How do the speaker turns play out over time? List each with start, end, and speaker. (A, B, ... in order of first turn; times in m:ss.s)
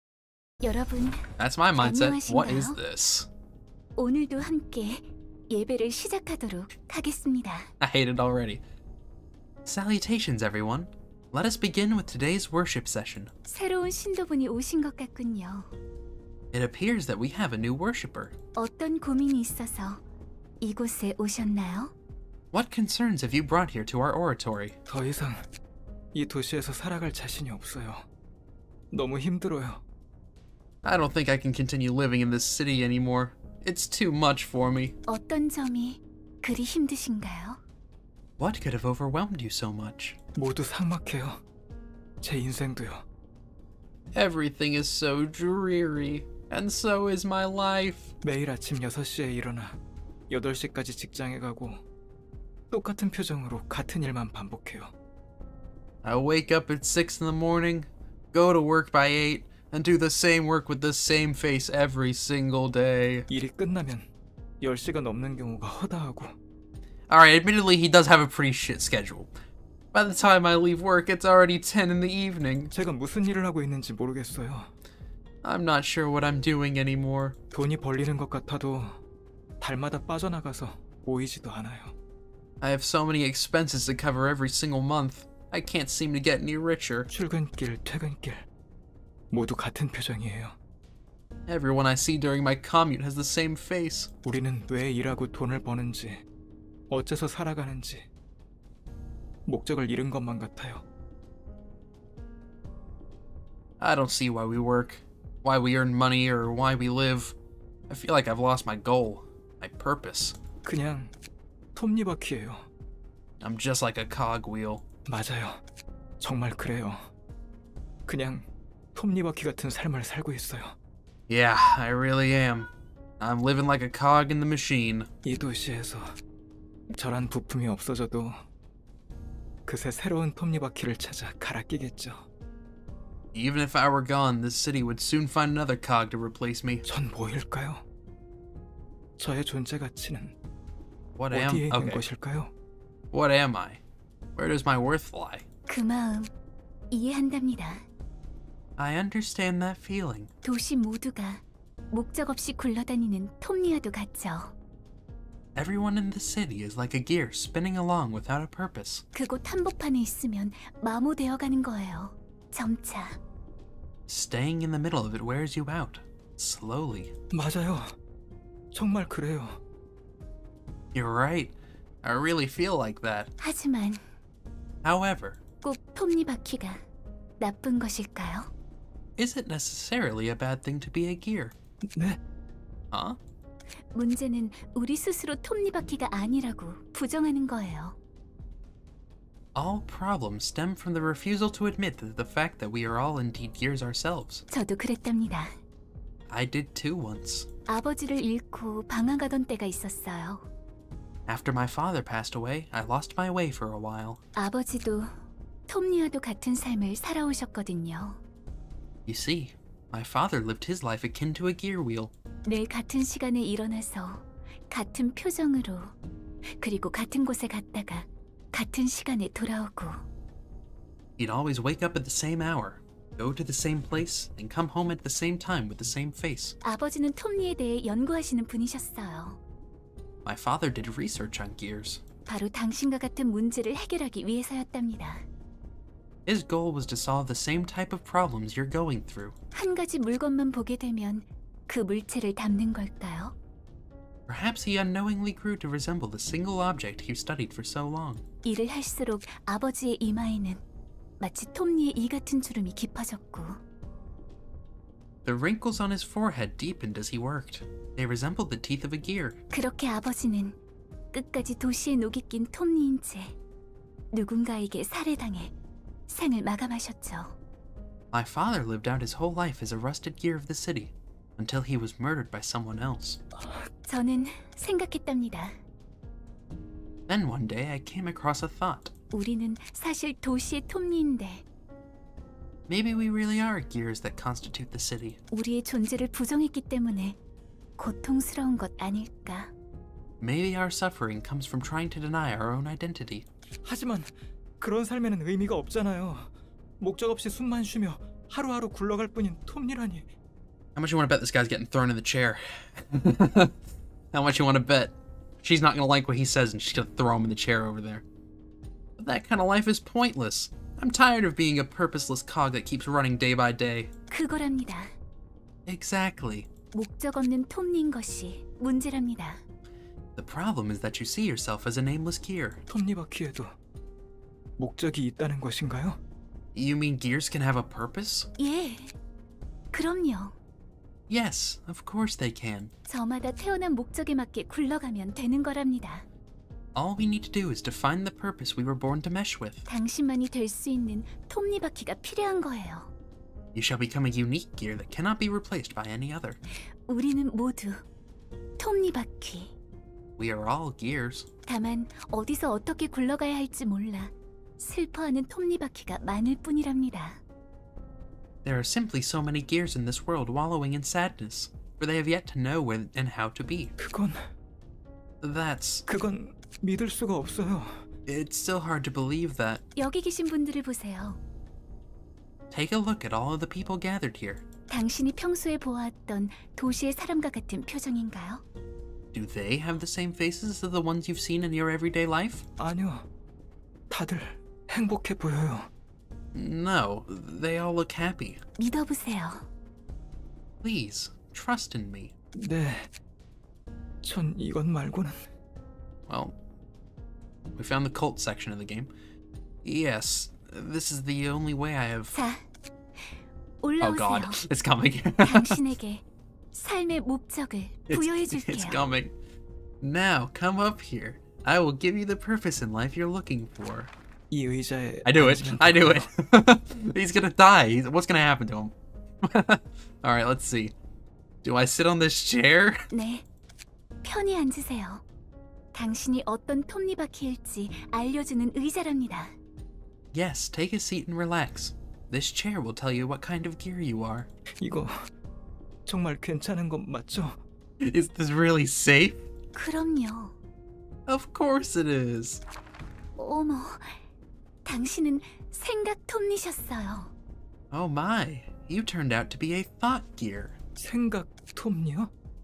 0:00.6-0:01.2 A
0:01.4-0:03.3 B
0:01.8-0:02.8 A
0:04.0-0:07.7 A
0:07.8-0:08.6 B
0:09.6-0:13.3 B
0:13.5-0:15.7 A
0:16.5-0:18.4 B
0:18.6-0:20.0 A
0:20.6-0:21.9 A
0:22.5-0:24.8 B
0:24.9-0:25.4 C
0:26.1-0:28.0 C
0:28.9-0:29.8 C
0:30.8-0:35.0 B
0:35.1-0:37.6 A
0:38.4-0:40.2 B
0:40.4-0:41.4 C
0:42.2-0:43.0 C
0:44.1-0:48.1 B
0:48.2-0:49.8 C
0:50.3-0:51.8 C
0:52.7-0:54.9 C
0:56.0-1:03.3 B
1:03.3-1:04.1 C
1:04.6-1:06.3 C
1:07.1-1:09.3 B
1:09.9-1:12.7 B
1:12.7-1:14.7 C
1:15.4-1:17.4 B
1:17.5-1:19.0 C
1:19.6-1:21.9 C
1:22.6-1:27.1 B
1:27.1-1:28.5 C
1:29.3-1:30.6 C
1:31.5-1:34.1 B
1:34.2-1:36.2 C
1:36.9-1:38.0 C
1:39.5-1:40.8 C
1:43.8-1:47.4 B
1:47.9-1:50.4 B
1:50.6-1:51.1 C
1:51.8-1:52.7 C
1:53.4-1:54.8 B
1:55.1-1:55.6 C
1:56.2-1:57.1 C
1:58.1-1:58.4 C
1:59.0-2:00.8 C
2:01.3-2:05.1 B
2:05.2-2:06.1 C
2:06.9-2:08.4 C
2:09.7-2:12.3 C
2:13.3-2:16.8 B
2:16.8-2:17.8 C
2:19.2-2:20.3 C
2:21.2-2:22.1 B
2:21.3-2:22.5 C
2:23.1-2:23.8 B
2:24.4-2:25.4 B
2:25.7-2:26.3 A
2:26.9-2:27.8 A
2:28.8-2:30.3 B
2:30.4-2:34.5 A
2:35.6-2:39.0 B
2:39.2-2:43.2 A
2:44.1-2:47.1 B
2:47.3-2:48.0 C
2:48.7-2:49.6 C
2:50.9-2:53.3 B
2:53.4-2:54.0 A
2:54.8-2:55.4 B
2:55.6-2:56.8 A
2:57.4-2:58.5 A
2:59.2-3:01.6 B
3:01.9-3:02.2 C
3:02.9-3:03.2 B
3:03.9-3:08.0 A
3:09.6-3:14.4 B
3:14.5-3:15.5 A
3:16.3-3:17.5 B
3:17.7-3:20.5 A
3:21.3-3:24.2 B
3:24.4-3:25.1 A
3:25.7-3:28.2 A
3:29.1-3:32.1 B
3:32.5-3:35.9 A
3:36.6-3:40.0 A
3:41.2-3:46.6 B
3:46.6-3:49.4 A
3:50.2-3:52.0 B
3:52.3-3:55.2 A
3:56.3-3:59.4 B
3:59.5-4:03.3 A
4:04.3-4:08.2 B
4:08.4-4:10.6 A
4:11.2-4:13.6 A
4:15.2-4:19.4 B
4:19.5-4:20.6 A
4:21.1-4:23.3 A
4:24.1-4:25.5 A
4:26.1-4:27.3 A
4:28.1-4:33.2 B
4:33.9-4:35.5 A
4:37.1-4:38.9 B
4:39.1-4:41.4 A
4:42.7-4:45.2 B
4:45.3-4:47.2 A
4:47.8-4:49.5 A
4:50.2-4:53.3 B
4:53.6-5:00.1 C
5:00.8-5:03.6 B
5:04.1-5:08.0 B
5:09.0-5:13.9 B
5:14.1-5:14.9 A
5:15.7-5:16.5 B
5:16.7-5:19.4 A
5:20.2-5:22.6 B
5:22.7-5:23.5 C
5:24.6-5:26.0 C
5:26.6-5:28.3 B
5:28.4-5:28.9 A
5:29.7-5:30.4 A
5:31.1-5:32.7 B
5:32.9-5:36.0 A
5:36.8-5:39.6 B
5:39.7-5:42.9 A
5:43.5-5:46.4 B
5:46.9-5:47.8 A
5:48.6-5:49.5 A
5:50.2-5:51.3 B
5:51.5-5:57.2 A
5:58.4-6:03.7 B
6:03.8-6:04.2 C
6:05.2-6:05.8 B
6:05.9-6:07.9 C
6:08.1-6:09.6 B
6:09.8-6:11.2 A
6:12.5-6:14.4 B
6:14.7-6:18.4 A
6:19.1-6:22.4 B
6:22.6-6:23.1 C
6:23.9-6:25.7 C
6:26.3-6:28.4 B
6:28.6-6:29.4 A
6:30.6-6:32.1 B
6:32.4-6:32.9 C
6:34.0-6:35.3 C
6:36.1-6:36.4 B
6:37.6-6:38.9 B
6:39.6-6:42.2 B
6:43.6-6:44.4 A
6:43.8-6:45.6 B
6:45.2-6:48.8 A
6:47.9-6:49.1 B
6:49.8-6:53.9 B
6:54.3-6:56.1 C
6:55.0-7:00.7 B
7:01.4-7:02.8 B
7:02.9-7:03.2 A
7:04.0-7:05.0 A
7:05.7-7:09.3 A
7:10.1-7:14.3 B
7:14.6-7:15.0 C
7:15.9-7:17.4 C
7:17.8-7:19.2 B
7:19.6-7:20.3 A
7:21.1-7:22.4 B
7:23.2-7:23.9 A
7:24.6-7:27.1 A
7:27.7-7:30.6 B
7:30.8-7:32.1 C